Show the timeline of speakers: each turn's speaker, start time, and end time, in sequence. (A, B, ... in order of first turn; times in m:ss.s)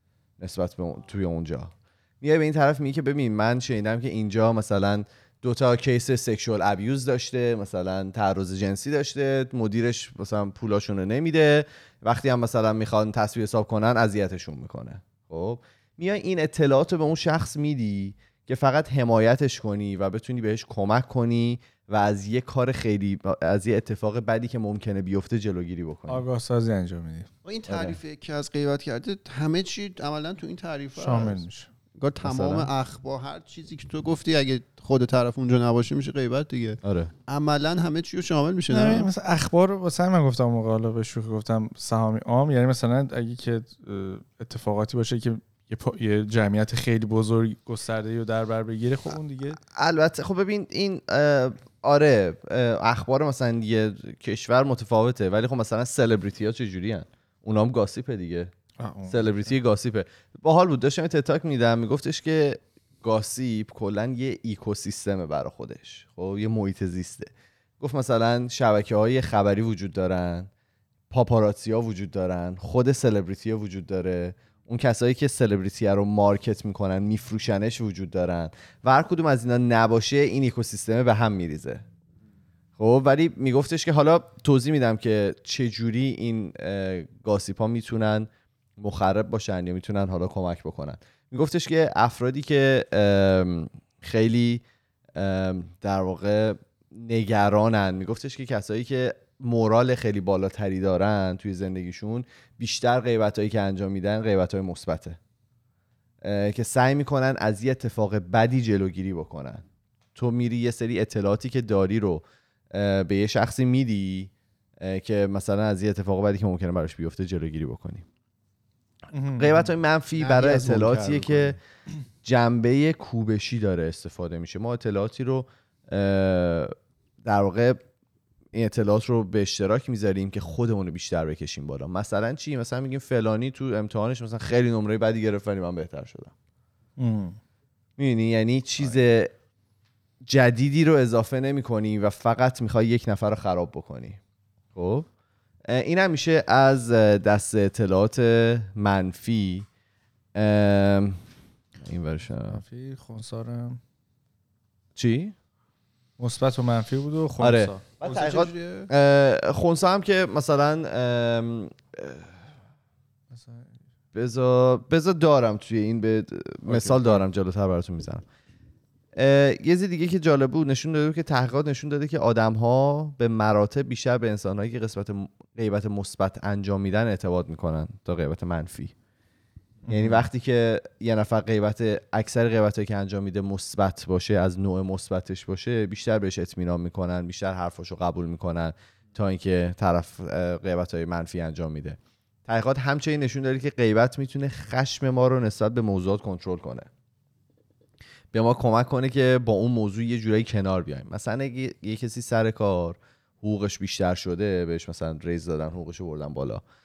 0:00.4-0:26.2 A
0:26.1-0:27.3 B
0:27.4-0:31.4 C
0:27.7-0:28.0 A
0:31.0-0:31.7 B
0:32.0-0:39.1 C
0:32.2-0:32.7 A
0:36.8-0:37.1 A
0:38.7-0:49.6 B
0:49.8-0:58.5 A
0:58.8-0:59.4 B
0:59.1-1:10.5 A
1:11.1-1:21.8 A
1:22.8-1:34.6 A
1:35.2-1:45.2 A
1:46.2-1:49.6 A
1:50.2-1:58.0 A
1:59.1-1:59.7 B
1:59.4-2:01.6 A
2:00.2-2:01.6 C
2:02.2-2:07.8 A
2:08.5-2:16.3 A
2:17.0-2:17.4 B
2:18.0-2:19.3 A
2:20.2-2:24.2 A
2:24.8-2:25.1 A
2:25.7-2:29.7 A
2:30.4-2:31.2 A
2:31.8-2:32.6 A
2:32.4-2:33.8 B
2:35.0-2:35.4 A
2:36.2-2:37.8 B
2:37.4-2:42.4 A
2:38.0-2:38.9 C
2:43.3-2:43.7 B
2:44.1-2:48.2 A
2:46.7-2:47.2 B
2:49.2-2:58.9 A
2:59.9-3:00.3 B
2:59.9-3:16.9 A
3:18.3-3:26.6 A